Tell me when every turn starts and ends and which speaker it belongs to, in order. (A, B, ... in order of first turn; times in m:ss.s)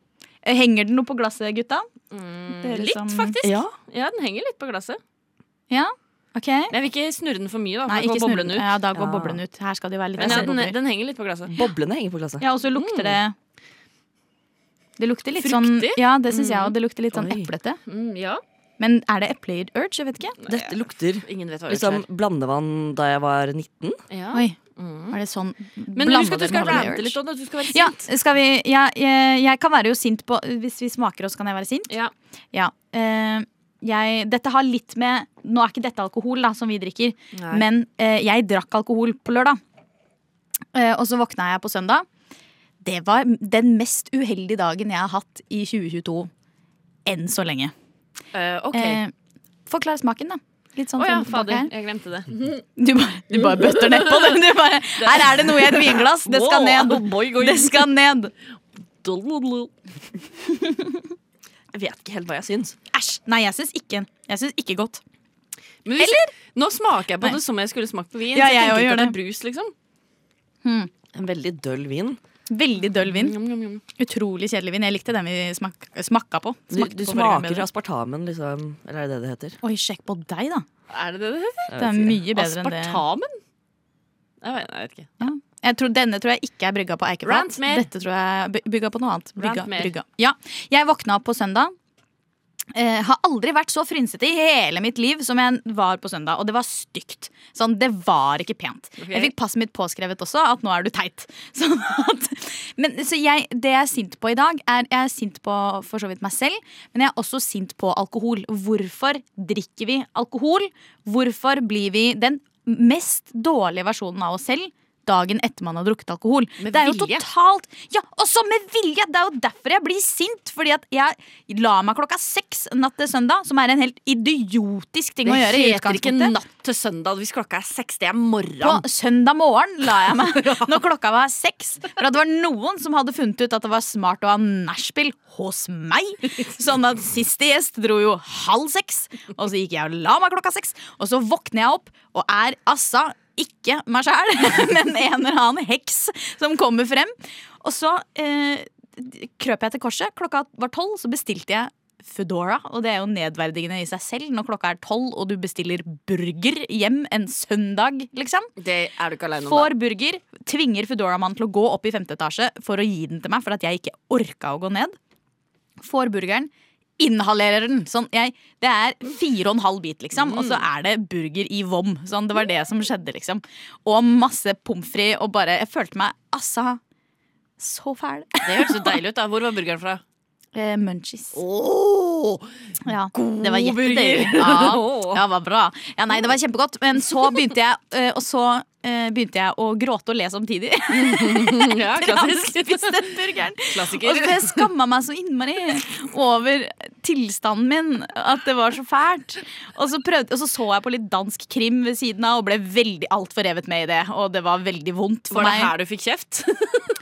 0:00.4-0:01.9 A
0:02.1-0:05.0 B
0:02.5-0:03.4 A
0:03.4-0:03.7 C
0:05.7-0:06.7 A
0:06.7-0:08.7 B
0:07.9-0:10.8 A
0:09.0-0:09.4 C
0:10.2-0:11.5 B
0:11.5-0:12.4 C
0:12.4-0:13.3 A
0:12.8-0:13.2 B
0:15.0-0:17.8 A
0:15.4-0:16.7 B
0:17.1-0:17.4 C
0:17.9-0:18.4 B
0:18.8-0:20.4 A
0:20.4-0:22.0 B
0:20.5-0:24.0 C
0:24.1-0:25.2 B
0:25.1-0:27.2 A
0:26.0-0:28.1 B
0:27.7-0:31.9 A
0:32.5-0:39.6 A
0:37.3-0:37.6 B
0:40.7-0:42.1 A
0:42.8-0:46.3 A
0:47.1-0:47.7 A
0:48.3-0:49.0 B
0:48.7-0:49.1 A
0:49.7-0:51.7 A
0:51.0-0:52.6 B
0:52.8-0:58.3 A
0:53.7-0:54.4 B
0:55.0-0:57.9 B
0:59.0-0:59.7 B
1:00.6-1:00.9 A
1:01.7-1:02.8 C
1:02.9-1:05.0 A
1:05.8-1:09.7 B
1:06.0-1:06.3 A
1:08.3-1:09.2 A
1:10.6-1:10.9 A
1:11.1-1:12.2 C
1:12.5-1:13.4 A
1:13.0-1:13.8 B
1:14.0-1:17.6 A
1:16.7-1:19.6 C
1:19.6-1:20.7 A
1:20.9-1:21.7 B
1:21.7-1:22.2 C
1:21.8-1:23.0 A
1:22.3-1:23.4 B
1:24.4-1:25.1 B
1:25.2-1:31.7 A
1:27.2-1:27.9 B
1:29.4-1:29.9 B
1:32.7-2:06.4 A
1:39.0-1:39.3 B
1:56.6-1:57.2 B
2:05.2-2:08.9 B
2:08.6-2:38.5 A
2:09.9-2:10.8 B
2:38.6-2:39.7 B
2:39.4-2:45.0 A
2:45.8-2:56.8 A
2:50.2-2:50.6 B
2:57.6-2:59.0 A
2:58.4-3:00.0 B
3:00.6-3:01.4 A
3:01.3-3:02.5 B
3:02.8-3:25.7 A
3:03.1-3:05.2 B
3:10.9-3:14.7 B
3:25.3-3:26.9 B